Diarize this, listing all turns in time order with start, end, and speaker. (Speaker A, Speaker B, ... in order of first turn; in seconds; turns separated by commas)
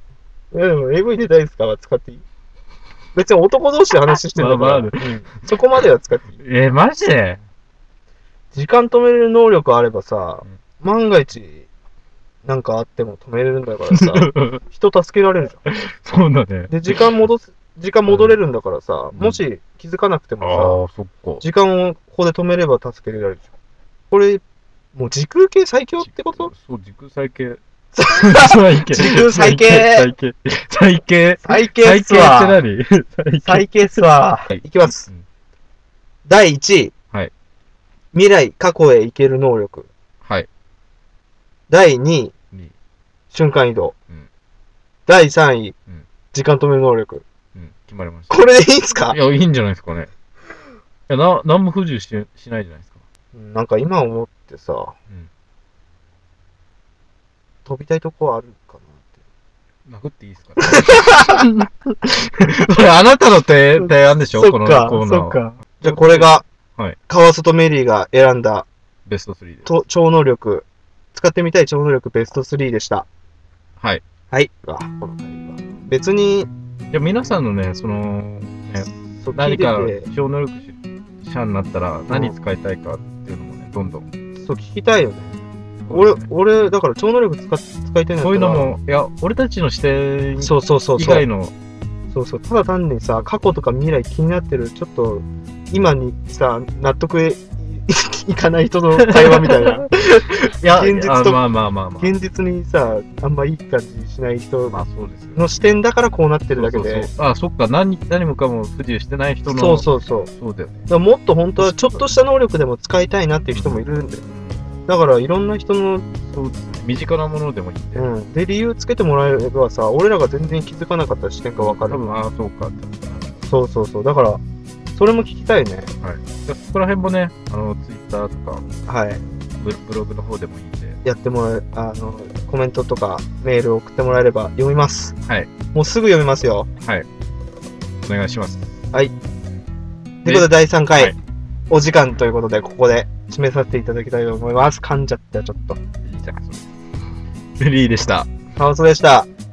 Speaker A: 0.5-2.2, Speaker A: 3.1-6.4, Speaker B: 4.1-5.3, Speaker B: 6.4-7.4, Speaker A: 8.5-11.7, Speaker A: 12.4-15.6, Speaker B: 13.9-14.6, Speaker B: 15.6-17.0, Speaker A: 16.7-20.8, Speaker B: 18.1-18.4, Speaker B: 19.1-19.4, Speaker B: 20.4-21.4, Speaker A: 21.4-23.5, Speaker A: 24.1-24.4, Speaker A: 24.9-26.5, Speaker B: 26.0-33.7, Speaker A: 27.9-30.1, Speaker A: 31.4-32.6, Speaker A: 33.4-35.1, Speaker B: 34.5-35.2, Speaker A: 36.2-36.9, Speaker A: 38.1-39.9, Speaker A: 41.7-42.3, Speaker A: 43.3-43.9, Speaker A: 45.1-45.8, Speaker A: 46.3-47.2, Speaker B: 47.5-48.5, Speaker A: 48.3-49.2, Speaker B: 49.1-50.1, Speaker B: 51.1-53.0, Speaker A: 53.3-55.0, Speaker A: 57.6-59.2, Speaker B: 59.9-61.7, Speaker A: 60.7-61.4, Speaker B: 62.4-67.0, Speaker A: 63.8-66.4, Speaker A: 67.1-68.7, Speaker B: 69.0-69.8, Speaker A: 69.6-73.1, Speaker A: 74.3-76.5, Speaker B: 76.9-84.1, Speaker A: 79.1-80.1, Speaker A: 82.1-82.3, Speaker A: 84.3-88.7, Speaker B: 85.8-86.2, Speaker B: 88.2-91.5, Speaker A: 90.4-91.2, Speaker A: 92.1-99.9, Speaker B: 99.0-102.1, Speaker A: 100.6-101.5, Speaker A: 102.0-104.8, Speaker B: 104.7-105.7, Speaker A: 105.3-107.1, Speaker B: 106.5-110.9, Speaker A: 109.4-110.3, Speaker A: 110.9-114.2, Speaker B: 111.6-112.0, Speaker B: 113.5-114.6, Speaker A: 114.8-116.1, Speaker B: 116.2-118.1, Speaker A: 117.9-122.0, Speaker B: 121.6-123.4, Speaker A: 123.4-124.4, Speaker A: 124.9-125.9, Speaker B: 126.0-128.6, Speaker A: 128.8-129.2, Speaker B: 129.6-131.0, Speaker A: 131.0-135.2, Speaker A: 135.7-136.7, Speaker B: 136.8-137.1, Speaker B: 138.0-138.7, Speaker A: 140.2-141.1, Speaker B: 140.2-141.2, Speaker A: 141.7-145.8, Speaker B: 146.0-146.7, Speaker B: 147.6-148.3, Speaker A: 148.6-149.3